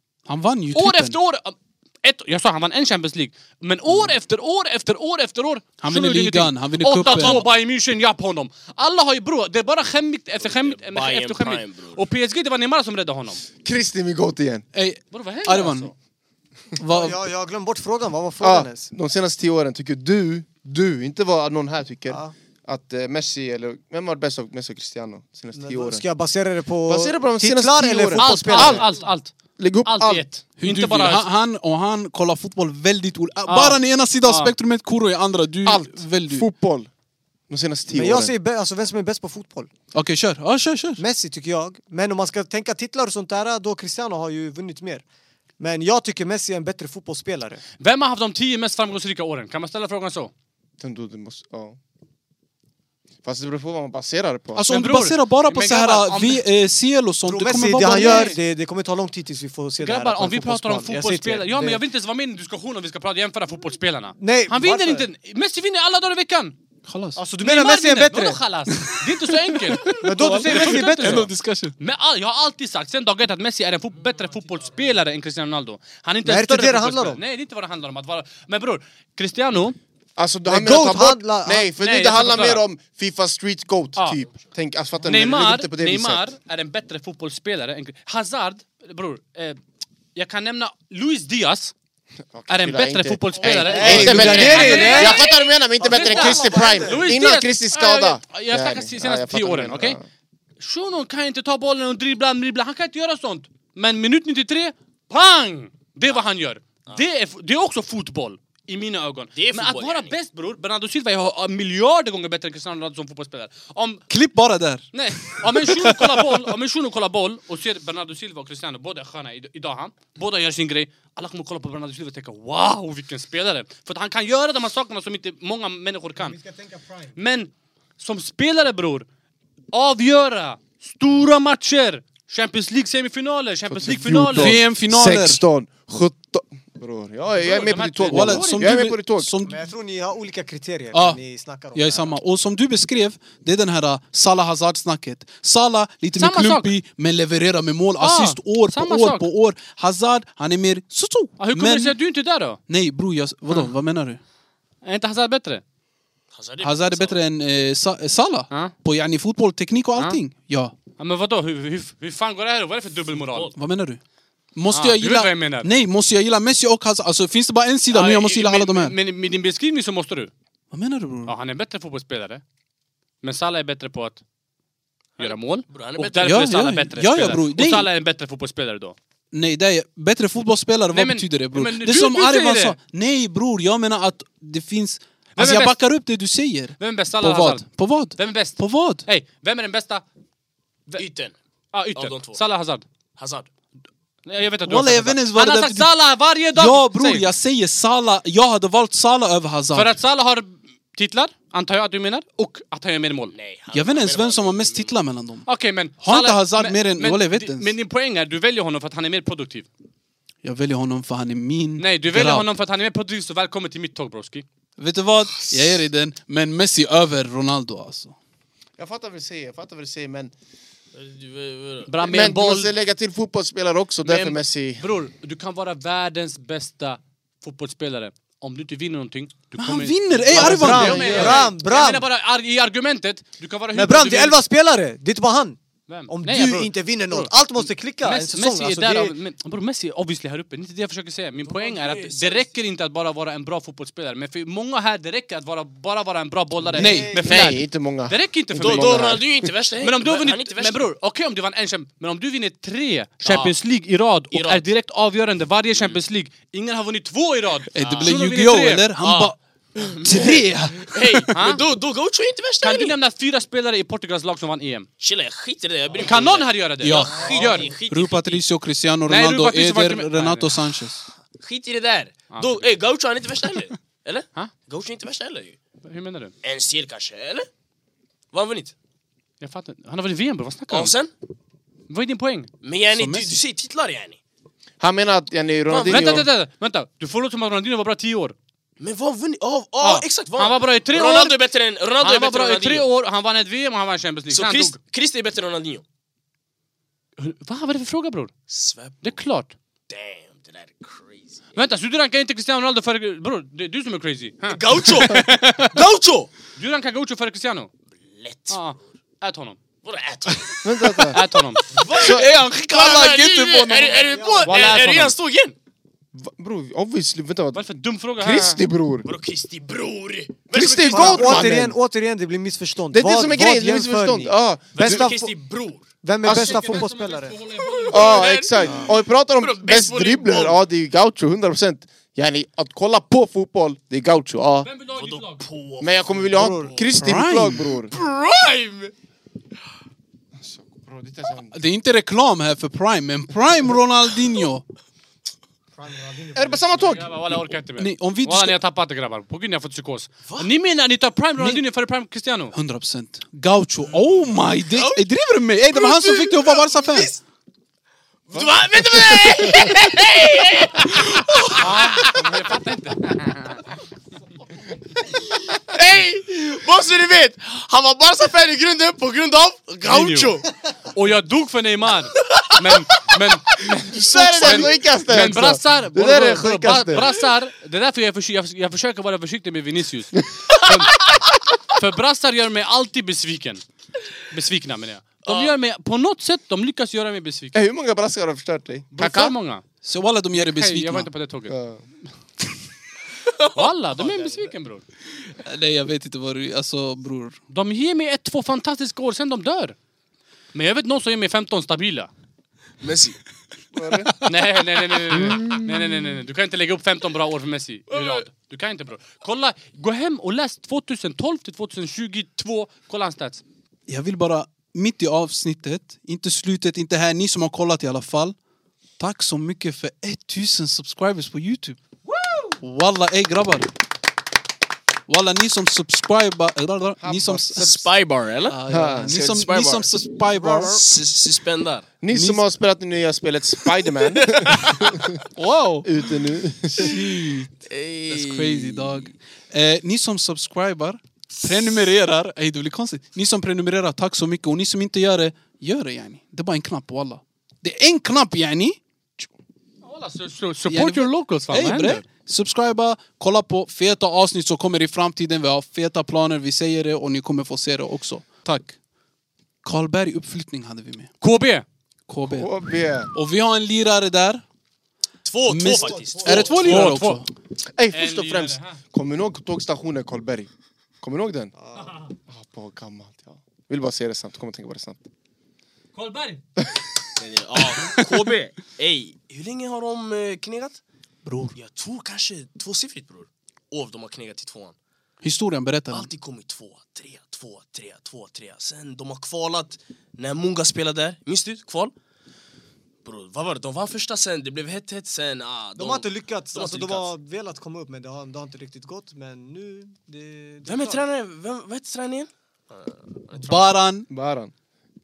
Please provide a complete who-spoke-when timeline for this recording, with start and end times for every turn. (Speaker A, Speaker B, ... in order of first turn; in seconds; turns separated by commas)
Speaker A: 0.3-1.2, Speaker B: 0.7-13.4, Speaker A: 5.8-7.4, Speaker C: 7.0-7.5, Speaker C: 10.4-12.1, Speaker D: 13.6-14.7, Speaker A: 14.7-15.9, Speaker B: 15.1-15.9, Speaker A: 16.8-17.2, Speaker E: 16.9-18.9, Speaker D: 18.4-26.1, Speaker E: 22.1-22.3, Speaker E: 25.6-28.9, Speaker D: 26.9-28.9, Speaker B: 28.1-29.3, Speaker D: 29.6-30.2, Speaker B: 29.8-31.2, Speaker A: 30.6-36.5, Speaker B: 33.5-34.5, Speaker D: 35.6-36.9, Speaker D: 37.5-38.3, Speaker E: 37.9-39.7, Speaker A: 39.9-41.0, Speaker E: 41.0-45.0, Speaker E: 45.6-47.6, Speaker B: 47.8-50.3, Speaker D: 50.8-51.8, Speaker D: 53.2-54.6, Speaker A: 54.5-58.3, Speaker B: 54.7-56.4, Speaker E: 57.2-61.8, Speaker B: 57.8-58.4, Speaker B: 59.8-66.6, Speaker E: 64.2-65.1, Speaker A: 66.9-67.2, Speaker E: 67.2-68.4, Speaker B: 67.4-79.8, Speaker A: 68.8-71.8, Speaker E: 70.0-71.3, Speaker E: 76.2-77.2, Speaker D: 80.2-86.2, Speaker E: 80.5-81.7, Speaker B: 81.8-82.7, Speaker B: 85.1-89.6, Speaker B: 90.2-91.7, Speaker D: 92.3-100.1, Speaker B: 92.5-100.0, Speaker C: 93.4-93.9, Speaker E: 93.5-97.2, Speaker B: 100.6-114.1, Speaker C: 109.3-110.1, Speaker A: 114.1-116.5, Speaker B: 114.9-126.4, Speaker E: 126.2-127.2, Speaker B: 127.2-129.1, Speaker B: 129.7-134.6, Speaker D: 133.7-139.3, Speaker A: 134.3-135.4, Speaker B: 137.4-138.8, Speaker A: 138.1-139.7, Speaker E: 139.4-142.2, Speaker A: 140.9-141.2, Speaker A: 141.7-152.0, Speaker B: 146.2-146.7, Speaker B: 148.0-149.3, Speaker B: 151.4-152.6, Speaker A: 152.7-154.2, Speaker B: 154.8-155.6, Speaker C: 156.3-157.2, Speaker A: 156.6-160.8, Speaker B: 161.0-163.5, Speaker C: 163.2-163.5, Speaker A: 163.6-164.0, Speaker A: 164.6-168.9, Speaker B: 164.7-165.7, Speaker B: 167.9-170.3, Speaker A: 170.7-171.3, Speaker B: 171.3-172.4, Speaker B: 173.2-174.2, Speaker C: 175.2-176.4, Speaker B: 175.2-179.0, Speaker A: 176.2-177.9, Speaker A: 179.3-189.1, Speaker B: 180.9-182.8, Speaker B: 185.4-185.8, Speaker B: 186.8-187.7, Speaker B: 188.2-190.0, Speaker C: 190.9-191.3, Speaker B: 191.7-192.8, Speaker C: 191.9-192.4, Speaker C: 193.2-193.5, Speaker B: 194.3-197.3, Speaker A: 194.7-195.9, Speaker A: 196.6-199.9, Speaker B: 199.7-203.3, Speaker C: 203.3-205.0, Speaker A: 203.7-205.5, Speaker B: 205.5-209.7, Speaker A: 206.0-207.7, Speaker A: 210.4-212.5, Speaker B: 211.8-214.4, Speaker A: 214.8-218.2, Speaker D: 218.8-220.3, Speaker C: 220.9-221.9, Speaker B: 221.9-222.7, Speaker D: 222.0-224.8, Speaker B: 224.0-234.4, Speaker A: 229.6-231.1, Speaker E: 230.3-232.0, Speaker D: 230.3-231.5, Speaker C: 231.1-231.4, Speaker E: 233.7-235.6, Speaker B: 235.9-249.2, Speaker E: 236.1-239.2, Speaker C: 241.5-242.5, Speaker E: 246.7-247.5, Speaker A: 246.8-247.5, Speaker D: 247.2-249.5, Speaker C: 248.6-250.9, Speaker B: 249.8-258.9, Speaker C: 253.2-253.5, Speaker C: 254.3-254.6, Speaker A: 257.7-261.3, Speaker C: 257.8-258.1, Speaker C: 259.0-263.0, Speaker B: 261.3-261.6, Speaker B: 262.6-264.9, Speaker C: 265.0-268.4, Speaker B: 266.0-267.8, Speaker A: 266.8-271.1, Speaker E: 267.2-267.7, Speaker B: 269.1-270.5, Speaker C: 271.4-275.6, Speaker B: 272.3-272.7, Speaker B: 275.8-276.3, Speaker C: 276.4-277.5, Speaker C: 278.3-278.7, Speaker B: 279.4-280.9, Speaker C: 280.7-281.1, Speaker B: 281.9-282.5, Speaker C: 282.6-284.2, Speaker A: 282.9-283.4, Speaker D: 284.8-286.3, Speaker C: 285.7-286.3, Speaker B: 285.8-288.4, Speaker C: 288.8-292.9, Speaker B: 289.8-291.4, Speaker B: 292.0-294.8, Speaker C: 294.3-295.8, Speaker B: 297.2-298.3, Speaker C: 298.5-299.1, Speaker B: 299.0-299.5, Speaker C: 299.9-301.4, Speaker B: 301.6-305.8, Speaker C: 304.5-306.3, Speaker B: 306.6-307.7, Speaker C: 308.0-308.6, Speaker B: 308.5-309.6, Speaker C: 309.8-310.7, Speaker D: 310.6-311.2, Speaker B: 311.1-311.8, Speaker C: 311.6-315.6, Speaker A: 311.8-314.0, Speaker D: 312.0-312.3, Speaker E: 314.1-314.6, Speaker B: 314.5-315.1, Speaker D: 316.1-319.1, Speaker B: 317.5-318.6, Speaker C: 319.0-321.6, Speaker D: 320.5-321.8, Speaker E: 320.9-325.3, Speaker D: 322.9-325.1, Speaker C: 324.7-325.9, Speaker E: 326.0-327.4, Speaker D: 326.2-326.8, Speaker B: 326.2-328.3, Speaker C: 327.6-330.6, Speaker D: 327.9-334.7, Speaker B: 334.6-335.4, Speaker C: 334.9-336.8, Speaker D: 335.8-337.9, Speaker E: 336.3-336.7, Speaker A: 337.0-337.8, Speaker C: 337.9-338.9, Speaker D: 340.4-341.6, Speaker A: 341.5-344.7, Speaker E: 345.8-347.0, Speaker D: 346.3-347.2, Speaker B: 346.8-352.6, Speaker A: 347.8-348.6, Speaker C: 350.2-350.5, Speaker A: 352.5-357.1, Speaker C: 353.9-355.1, Speaker C: 355.7-357.2, Speaker C: 358.3-362.3, Speaker D: 358.4-359.7, Speaker B: 361.6-363.6, Speaker C: 365.5-370.5, Speaker B: 369.8-370.4, Speaker B: 370.9-381.1, Speaker C: 372.2-372.6, Speaker D: 373.9-377.1, Speaker B: 381.7-383.6, Speaker B: 384.3-387.6, Speaker C: 385.2-385.5, Speaker D: 387.5-389.4, Speaker B: 388.9-389.6, Speaker A: 389.8-391.1, Speaker B: 390.3-391.6, Speaker D: 391.5-391.8, Speaker C: 393.2-393.6, Speaker B: 393.5-394.8, Speaker A: 395.4-397.4, Speaker B: 397.5-399.8, Speaker B: 400.5-402.1, Speaker C: 402.8-403.2, Speaker D: 403.7-404.1, Speaker B: 404.2-413.4, Speaker A: 405.1-406.0, Speaker C: 407.9-408.3, Speaker A: 413.9-418.4, Speaker A: 419.0-421.8, Speaker C: 422.2-422.5, Speaker A: 422.6-423.7, Speaker A: 425.1-427.9, Speaker D: 427.0-427.6, Speaker C: 427.5-431.9, Speaker A: 428.5-430.9, Speaker D: 428.7-429.1, Speaker E: 430.4-430.7, Speaker D: 432.0-435.2, Speaker A: 432.1-432.4, Speaker C: 433.9-435.0, Speaker A: 435.4-435.9, Speaker D: 435.9-437.0, Speaker A: 436.8-437.5, Speaker C: 437.6-439.1, Speaker A: 438.1-448.8, Speaker B: 449.8-452.0, Speaker A: 450.7-458.8, Speaker A: 459.6-461.1, Speaker B: 461.2-461.6, Speaker A: 462.1-462.6, Speaker D: 462.3-463.1, Speaker A: 463.1-464.4, Speaker C: 465.2-466.9, Speaker A: 465.5-467.3, Speaker E: 466.0-466.4, Speaker B: 466.5-467.2, Speaker D: 467.8-470.5, Speaker B: 467.9-468.8, Speaker D: 471.0-471.5, Speaker D: 472.3-475.0, Speaker B: 475.9-476.4, Speaker C: 477.2-480.8, Speaker A: 481.3-481.5, Speaker C: 481.6-484.8, Speaker A: 485.2-486.1, Speaker C: 485.9-491.9, Speaker C: 493.0-497.1, Speaker E: 495.8-501.0, Speaker C: 500.6-503.7, Speaker A: 503.4-504.1, Speaker D: 504.1-504.5